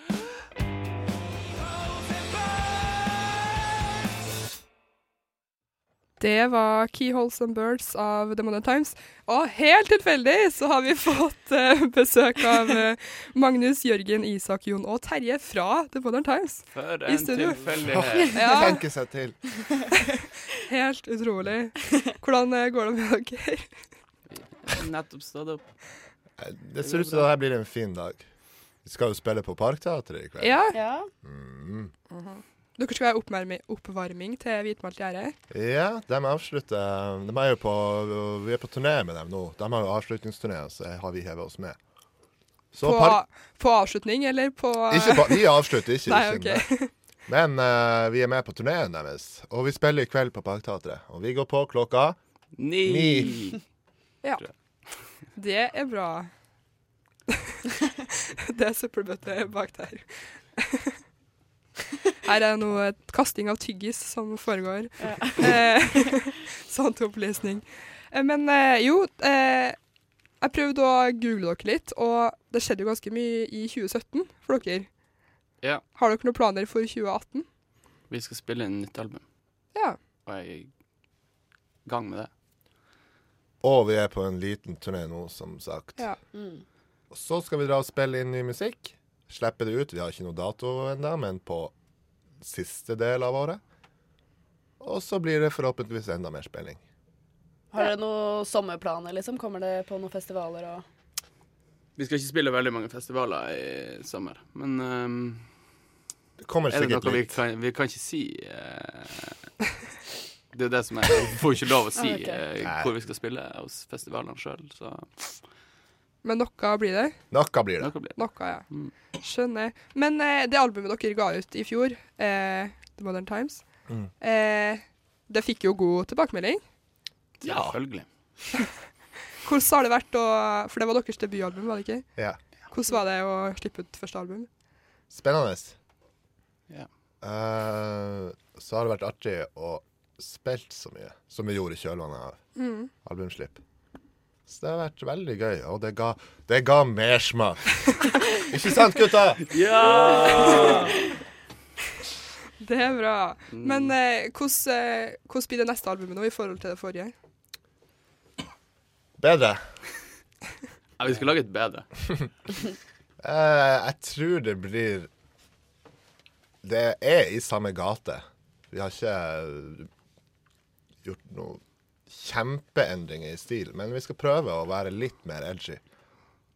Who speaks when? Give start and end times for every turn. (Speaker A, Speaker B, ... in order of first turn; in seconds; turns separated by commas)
Speaker A: 6.2-17.6, Speaker B: 16.7-18.4, Speaker C: 17.9-19.4, Speaker A: 18.3-18.8, Speaker A: 20.6-23.7, Speaker B: 24.3-25.6, Speaker C: 26.4-28.2, Speaker B: 26.8-27.3, Speaker C: 28.8-31.9, Speaker A: 30.4-30.8, Speaker D: 30.7-31.1, Speaker A: 32.1-35.3, Speaker C: 35.5-41.8, Speaker C: 42.7-43.2, Speaker A: 42.8-45.5, Speaker C: 44.9-46.6, Speaker A: 46.0-46.9, Speaker C: 47.3-52.2, Speaker B: 52.6-53.6, Speaker C: 52.8-53.4, Speaker A: 55.4-56.3, Speaker A: 58.5-61.0, Speaker A: 62.2-69.8, Speaker D: 65.0-66.1, Speaker A: 70.4-74.9, Speaker A: 76.0-77.5, Speaker B: 78.1-79.2, Speaker B: 80.2-80.7, Speaker B: 81.8-82.3, Speaker C: 83.6-86.0, Speaker D: 86.3-86.6, Speaker C: 87.1-91.7, Speaker C: 92.4-93.6, Speaker C: 94.8-96.8, Speaker D: 97.7-100.8, Speaker B: 102.0-105.5, Speaker C: 106.4-107.4, Speaker B: 106.7-109.4, Speaker B: 110.5-115.4, Speaker D: 112.0-112.4, Speaker C: 112.6-112.9, Speaker A: 116.2-117.2, Speaker C: 117.3-117.9, Speaker B: 117.8-118.2, Speaker A: 118.2-118.6, Speaker A: 119.2-123.6, Speaker A: 124.2-126.6, Speaker B: 127.4-128.1, Speaker C: 127.4-127.8, Speaker A: 129.4-132.1, Speaker A: 132.7-134.5, Speaker C: 135.1-135.8, Speaker C: 137.2-142.4, Speaker A: 142.6-142.9, Speaker C: 143.0-143.6, Speaker C: 144.5-149.4, Speaker B: 149.5-151.0, Speaker D: 150.2-150.6, Speaker A: 150.3-150.7, Speaker A: 152.6-157.1, Speaker B: 153.5-153.9, Speaker C: 159.2-159.6, Speaker B: 161.0-161.9, Speaker C: 163.2-165.1, Speaker C: 166.6-169.9, Speaker C: 171.0-175.8